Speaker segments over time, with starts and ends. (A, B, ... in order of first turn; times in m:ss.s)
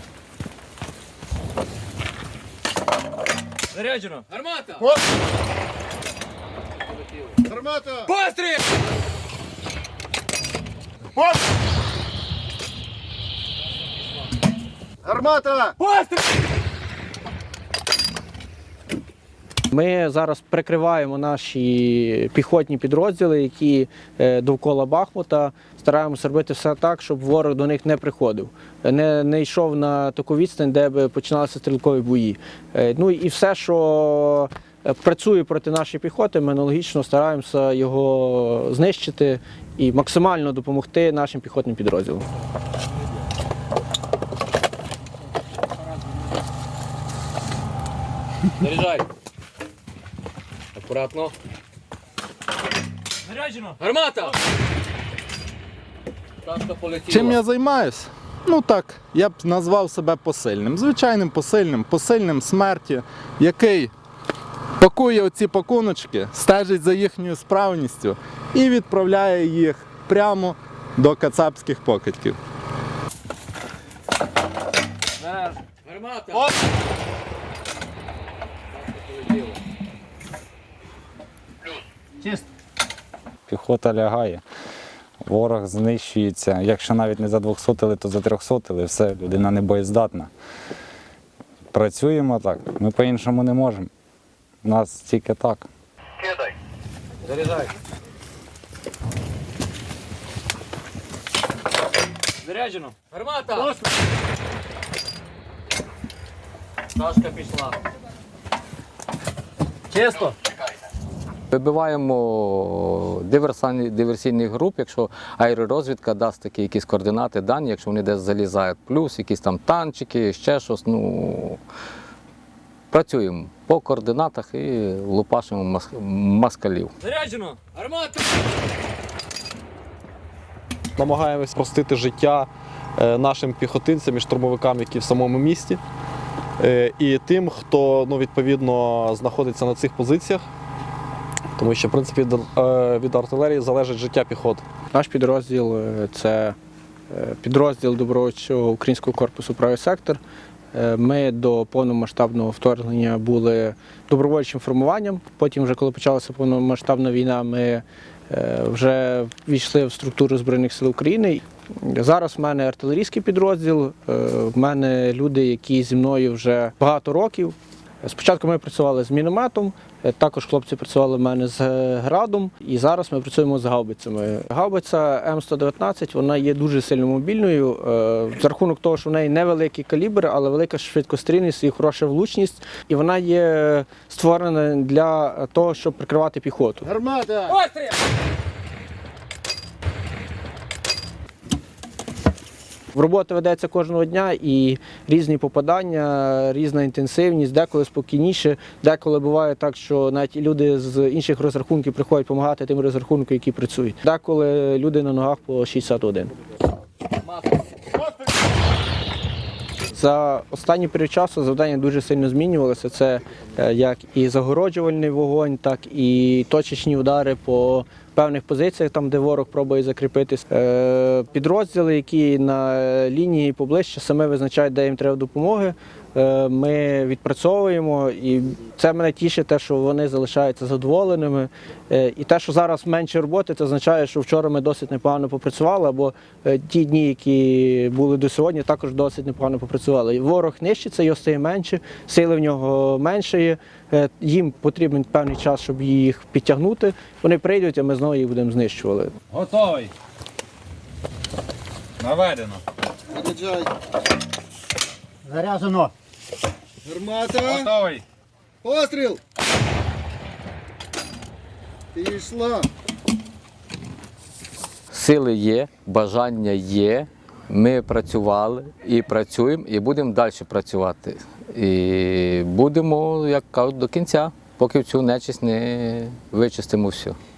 0:03.7-0:04.9 A
0:07.5-0:08.1 B
0:08.1-0:08.6 A
0:15.0-0:15.7 B
0:15.8-0:16.2 A
0:19.7-0:42.2 C
0:48.6-0:49.1 A
0:50.8-0:51.3 A
0:53.3-0:54.4 A
0:56.4-0:57.4 A
0:57.1-1:03.9 D
1:04.8-1:12.4 D
1:15.3-1:16.5 A
1:18.8-1:19.6 A
1:23.5-1:24.4 E
1:25.2-1:30.3 E
1:31.7-1:33.9 E
1:34.6-1:35.7 E
1:37.3-1:37.7 A
1:42.4-1:43.8 A
1:47.0-1:47.8 A
1:51.5-2:01.6 F
2:02.9-2:06.9 F
2:07.0-2:08.3 A
2:11.0-2:15.8 G
2:16.6-2:20.4 G
2:21.6-2:24.6 G
2:24.9-2:26.6 C
2:27.1-2:30.2 C
2:30.7-3:06.9 C
3:06.9-3:07.5 B
3:07.6-3:07.8 A
3:12.9-3:26.3 C
3:29.9-4:09.2 C
4:09.4-4:09.7 E
4:12.0-4:12.5 E
4:13.1-4:13.7 B
4:15.3-4:15.9 B
4:16.8-4:17.7 B
4:18.6-4:19.2 B
4:22.0-4:22.7 B
4:24.9-4:37.2 F